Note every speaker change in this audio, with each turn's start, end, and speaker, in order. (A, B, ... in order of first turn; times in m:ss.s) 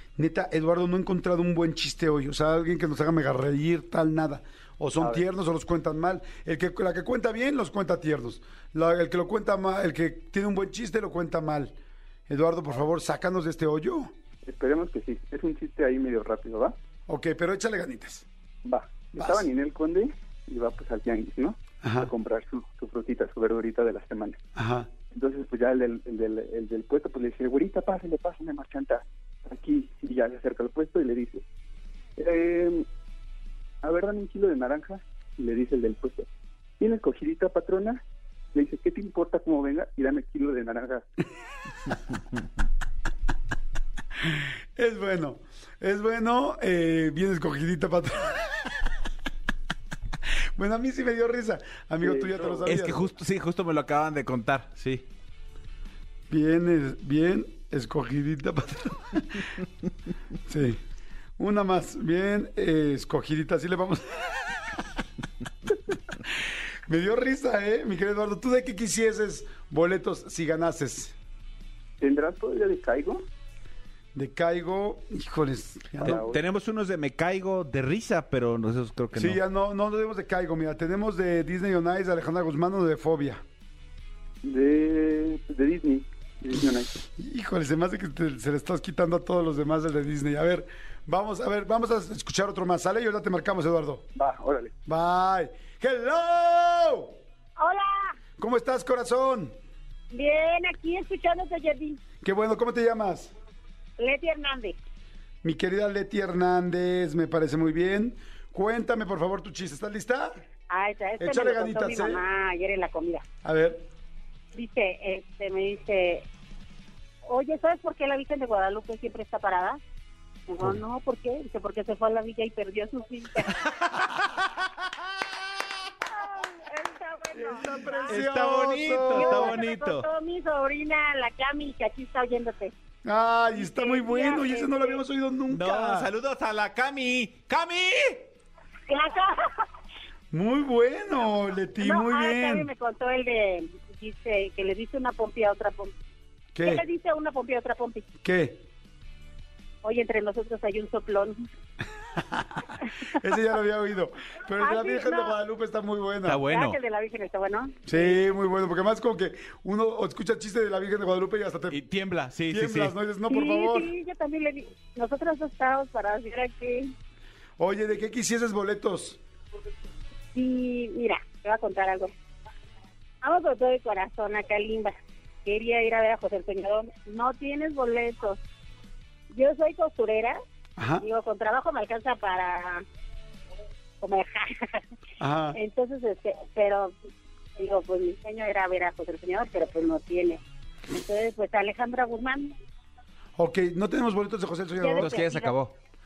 0:00.2-0:11.8 A
0:05.0-0:05.2 B
0:12.3-0:14.1 A
0:14.4-0:16.8 B
0:17.1-0:18.2 A
0:18.6-0:24.4 B
0:19.2-0:19.5 A
0:21.8-0:22.1 A
0:24.6-0:24.9 A
0:25.1-0:31.4 B
0:32.2-0:32.8 B
0:33.8-0:36.3 B
0:36.8-0:38.0 B
0:38.5-0:41.0 B
0:44.8-0:48.5 A
0:50.6-0:53.1 A
0:52.0-0:52.7 B
0:52.6-0:55.0 C
0:56.3-0:59.4 A
1:00.5-1:00.8 A
1:01.4-1:04.7 A
1:06.9-1:11.1 A
1:12.0-1:13.2 B
1:14.1-1:16.2 A
1:16.0-1:19.4 C
1:16.0-1:16.4 B
1:19.1-1:23.4 A
1:24.4-1:26.9 B
1:27.2-1:34.0 A
1:34.1-1:34.7 B
1:34.9-1:37.1 A
1:37.6-1:38.1 D
1:38.4-1:39.5 A
1:40.1-1:42.0 D
1:42.2-1:43.3 A
1:44.0-1:44.8 D
1:45.4-1:50.4 A
1:50.7-1:53.2 D
1:51.2-1:52.2 A
1:53.4-1:53.8 A
1:54.5-1:56.2 D
1:57.2-1:59.8 D
2:00.5-2:03.6 D
2:06.1-2:12.7 D
2:07.3-2:09.6 A
2:08.0-2:10.1 C
2:13.0-2:16.1 A
2:13.5-2:15.0 D
2:15.5-2:18.3 C
2:18.9-2:19.6 D
2:20.3-2:22.7 A
2:21.8-2:25.9 D
2:26.5-2:26.8 A
2:26.6-2:28.0 D
2:28.2-2:28.6 A
2:29.8-2:31.4 D
2:32.2-2:36.4 A
2:34.5-2:35.4 D
2:36.2-2:36.8 C
2:36.5-2:38.2 D
2:37.9-2:41.8 A
2:41.7-2:42.9 C
2:42.5-2:43.9 A
2:43.3-2:46.9 D
2:47.6-2:49.2 A
2:50.3-2:52.1 D
2:53.2-2:54.9 D
2:55.4-2:58.4 D
2:59.3-3:00.4 D
3:00.8-3:01.0 A
3:01.0-3:02.8 D
3:04.0-3:04.8 D
3:05.2-3:05.6 A
3:05.5-3:06.9 D
3:07.6-3:12.6 D
3:13.4-3:15.2 A
3:14.8-3:15.5 D
3:15.0-3:15.7 C